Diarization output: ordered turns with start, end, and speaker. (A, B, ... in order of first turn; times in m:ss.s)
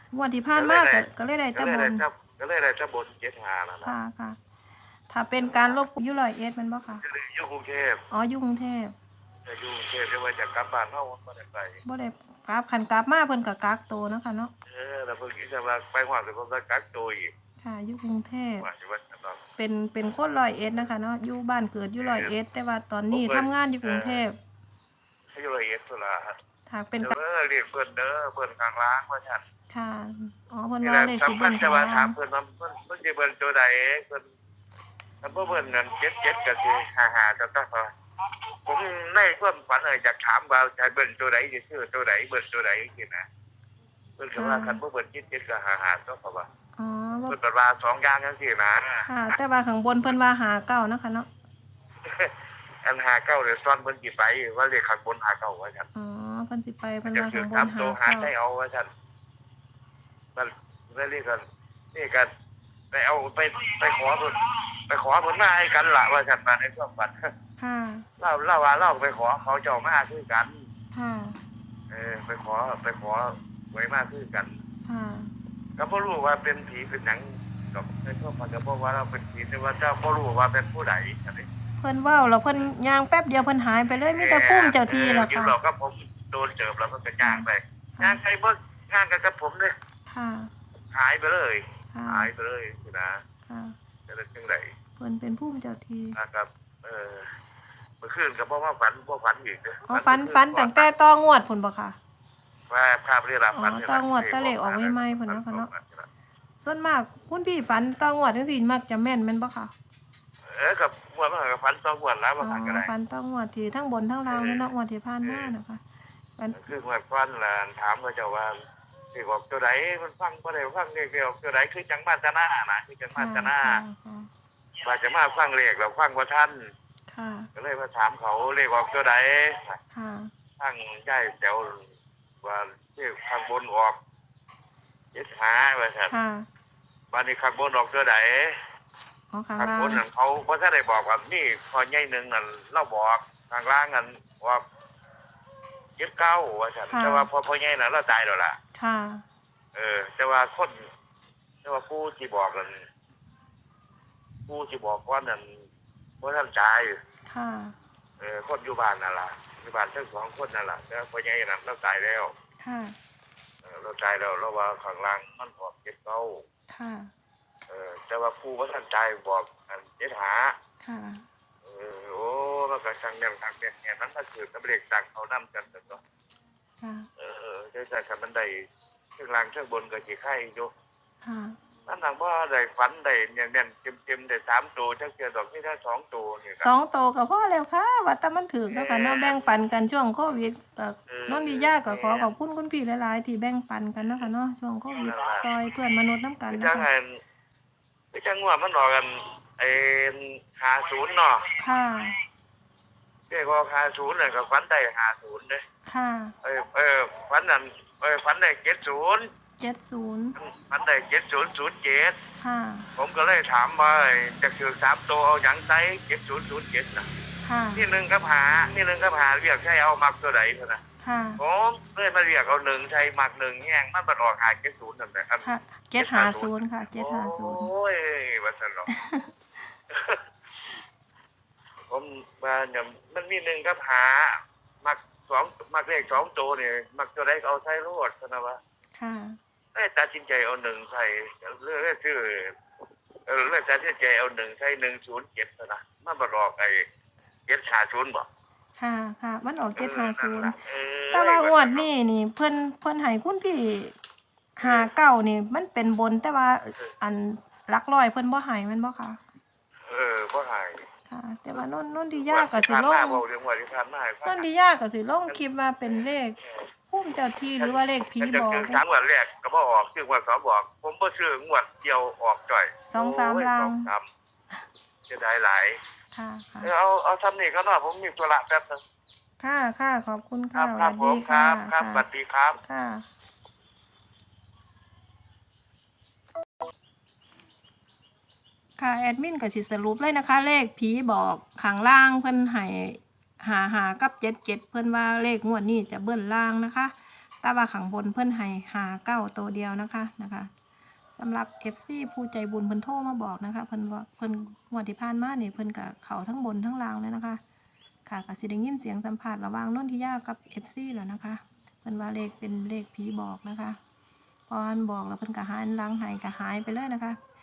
0:00.1-0:02.0 A
0:00.5-0:04.0 B
0:03.8-0:04.4 A
0:05.1-0:07.0 A
0:05.4-0:05.8 B
0:07.0-0:08.0 B
0:08.1-0:09.0 A
0:09.5-0:11.8 B
0:11.8-0:14.5 A
0:14.7-0:17.3 B
0:17.6-0:18.7 A
0:18.6-0:19.4 B
0:19.6-0:24.4 A
0:22.0-0:22.3 B
0:23.1-0:24.2 B
0:25.3-0:26.4 B
0:26.7-0:27.2 A
0:27.0-0:29.4 B
0:29.7-0:32.2 A
0:30.8-0:34.3 B
0:35.2-0:37.9 B
0:38.6-0:43.3 B
0:44.2-0:46.5 B
0:44.4-0:44.8 A
0:46.8-0:47.4 A
0:47.3-0:49.4 B
0:49.0-0:51.3 A
0:52.0-0:55.9 B
0:56.0-0:58.3 A
0:57.1-0:58.9 B
1:00.4-1:01.4 B
1:01.9-1:02.3 B
1:02.9-1:07.2 B
1:07.6-1:08.1 A
1:08.2-1:10.6 B
1:10.9-1:11.4 A
1:11.9-1:14.6 B
1:14.9-1:15.3 A
1:15.8-1:21.5 B
1:21.8-1:25.5 A
1:24.2-1:29.7 B
1:27.2-1:28.2 A
1:30.1-1:30.5 A
1:30.9-1:33.2 B
1:31.9-1:32.3 A
1:33.5-1:33.8 A
1:34.1-1:34.7 B
1:35.0-1:36.2 A
1:36.2-1:37.3 B
1:38.0-1:40.9 B
1:39.9-1:42.0 A
1:42.7-1:46.1 B
1:43.5-1:45.7 A
1:46.6-1:49.7 A
1:50.5-1:52.9 B
1:52.4-1:55.8 A
1:54.3-1:54.7 B
1:55.2-1:55.5 B
1:56.4-1:56.7 A
1:56.5-1:58.5 B
1:59.1-2:03.8 B
2:03.2-2:04.3 A
2:04.8-2:06.6 B
2:07.1-2:07.5 A
2:07.6-2:09.8 B
2:09.9-2:10.3 A
2:10.6-2:11.8 B
2:12.4-2:14.0 B
2:15.1-2:16.2 B
2:16.1-2:16.5 A
2:17.1-2:18.6 B
2:19.3-2:20.0 A
2:19.6-2:24.6 B
2:26.0-2:28.6 B
2:26.9-2:27.3 A
2:28.8-2:29.2 A
2:29.8-2:30.8 B
2:31.6-2:32.8 B
2:34.5-2:35.6 B
2:36.2-2:37.0 B
2:37.3-2:37.8 A
2:38.2-2:42.3 B
2:42.6-2:43.0 A
2:43.6-2:46.4 B
2:46.7-2:47.1 A
2:47.7-2:50.6 B
2:50.8-2:51.2 A
2:51.6-2:56.0 B
2:56.8-2:57.1 A
2:57.2-2:58.6 B
2:59.2-3:00.7 B
3:01.2-3:01.6 A
3:01.9-3:06.7 B
3:06.6-3:16.9 A
3:08.7-3:09.6 B
3:11.1-3:12.3 B
3:14.9-3:15.5 B
3:16.5-3:17.2 B
3:18.1-3:21.4 B
3:21.6-3:22.2 A
3:23.3-3:25.6 B
3:25.9-3:26.3 A
3:26.4-3:29.3 B
3:29.6-3:30.4 A
3:30.4-3:32.2 B
3:32.4-3:32.9 A
3:33.0-3:37.1 B
3:37.4-3:37.8 A
3:37.8-3:40.8 B
3:41.0-3:41.4 A
3:41.4-3:48.9 B
3:45.4-3:47.7 A
3:48.9-3:49.3 A
3:49.9-3:50.2 B
3:51.9-3:58.6 B
3:59.0-3:59.4 A
3:59.8-4:02.6 B
4:03.3-4:06.8 B
4:07.5-4:08.3 B
4:08.8-4:10.6 A
4:09.8-4:11.9 B
4:11.1-4:14.0 A
4:14.6-4:19.2 A
4:14.6-4:14.9 B
4:19.9-4:20.9 B
4:21.1-4:23.2 A
4:22.2-4:24.4 B
4:24.2-4:26.4 A
4:26.9-4:28.8 A
4:27.6-4:34.1 B
4:32.9-4:33.9 A
4:35.1-4:35.8 B
4:36.1-4:36.7 A
4:36.6-4:38.8 B
4:39.4-4:42.0 A
4:40.6-4:42.6 B
4:42.6-4:43.1 A
4:48.8-5:00.5 A
5:01.2-5:07.4 A
5:08.1-5:13.8 A
5:14.5-5:17.2 A